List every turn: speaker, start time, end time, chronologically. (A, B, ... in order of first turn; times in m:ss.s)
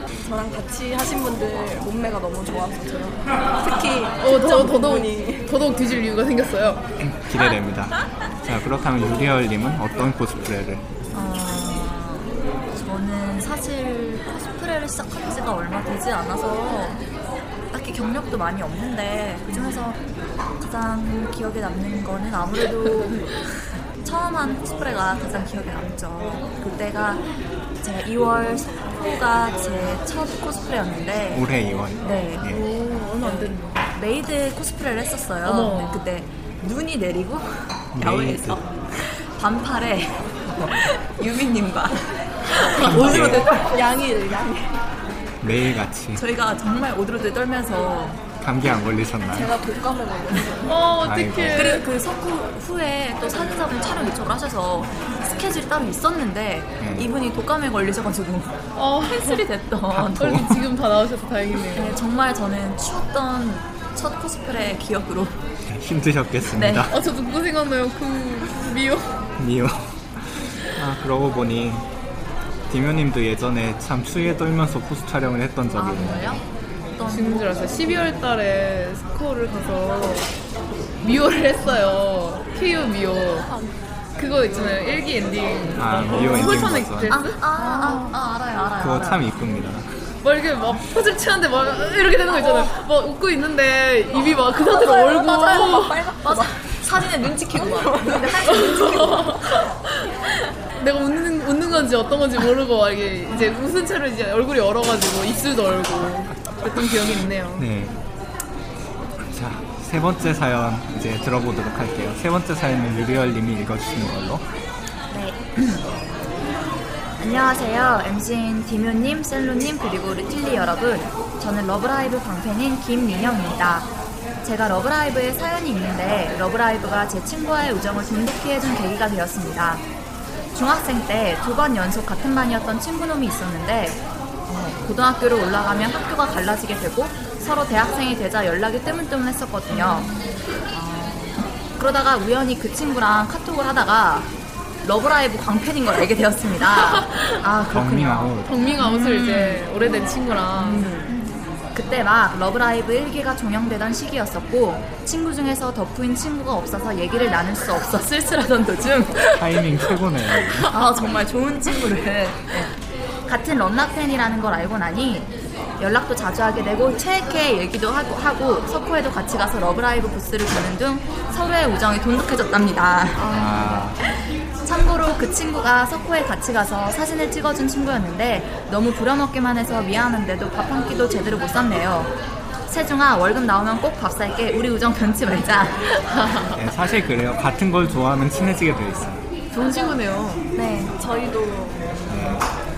0:00.2-0:05.5 A
0:04.2-0:06.8 B
0:07.0-0:10.8 C
0:11.1-0:17.0 D
0:17.7-0:20.0 D
0:19.6-0:19.9 B
0:20.6-0:27.3 D
0:27.8-0:31.5 D
0:31.3-0:32.6 C
0:32.0-0:32.5 D
0:32.5-0:33.8 B
0:33.2-0:43.7 D
0:35.4-0:36.1 B
0:37.9-0:38.6 C
0:42.7-0:44.8 A
0:42.9-0:43.5 C
0:45.4-0:46.2 C
0:46.2-0:48.2 D
0:48.4-0:49.5 C
0:49.3-0:50.8 A
0:50.6-0:51.9 B
0:51.0-0:51.8 C
0:51.5-1:00.4 D
0:56.8-0:57.1 C
0:58.8-0:59.4 B
0:59.9-1:00.6 C
1:00.2-1:02.0 B
1:01.7-1:05.4 D
1:05.6-1:07.0 C
1:06.5-1:06.9 D
1:06.9-1:09.2 B
1:09.4-1:11.9 C
1:12.7-1:16.4 C
1:15.8-1:18.2 D
1:17.1-1:20.3 B
1:21.0-1:23.5 B
1:24.2-1:27.4 B
1:25.8-1:27.2 C
1:27.1-1:29.2 D
1:27.6-1:28.2 A
1:28.8-1:29.9 C
1:30.2-1:36.0 B
1:34.6-1:36.8 A
1:36.1-1:39.4 D
1:37.6-1:38.6 A
1:38.5-1:39.6 B
1:40.8-1:47.7 B
1:47.6-1:48.0 C
1:49.2-1:54.4 C
1:55.1-1:55.9 D
1:57.2-2:09.8 D
2:10.5-2:20.1 D
2:19.7-2:20.3 B
2:20.7-2:24.3 D
2:24.8-2:29.7 D
2:27.7-2:28.5 C
2:28.4-2:31.1 B
2:30.6-2:31.2 D
2:31.7-2:39.4 D
2:39.3-2:40.7 C
2:40.7-2:42.7 D
2:43.3-2:54.0 D
2:53.2-2:54.0 C
2:54.6-3:02.2 D
3:02.7-3:05.9 D
3:06.0-3:06.6 B
3:06.6-3:09.2 C
3:09.5-3:10.5 B
3:10.6-3:10.9 D
3:11.0-3:12.0 A
3:12.1-3:12.5 C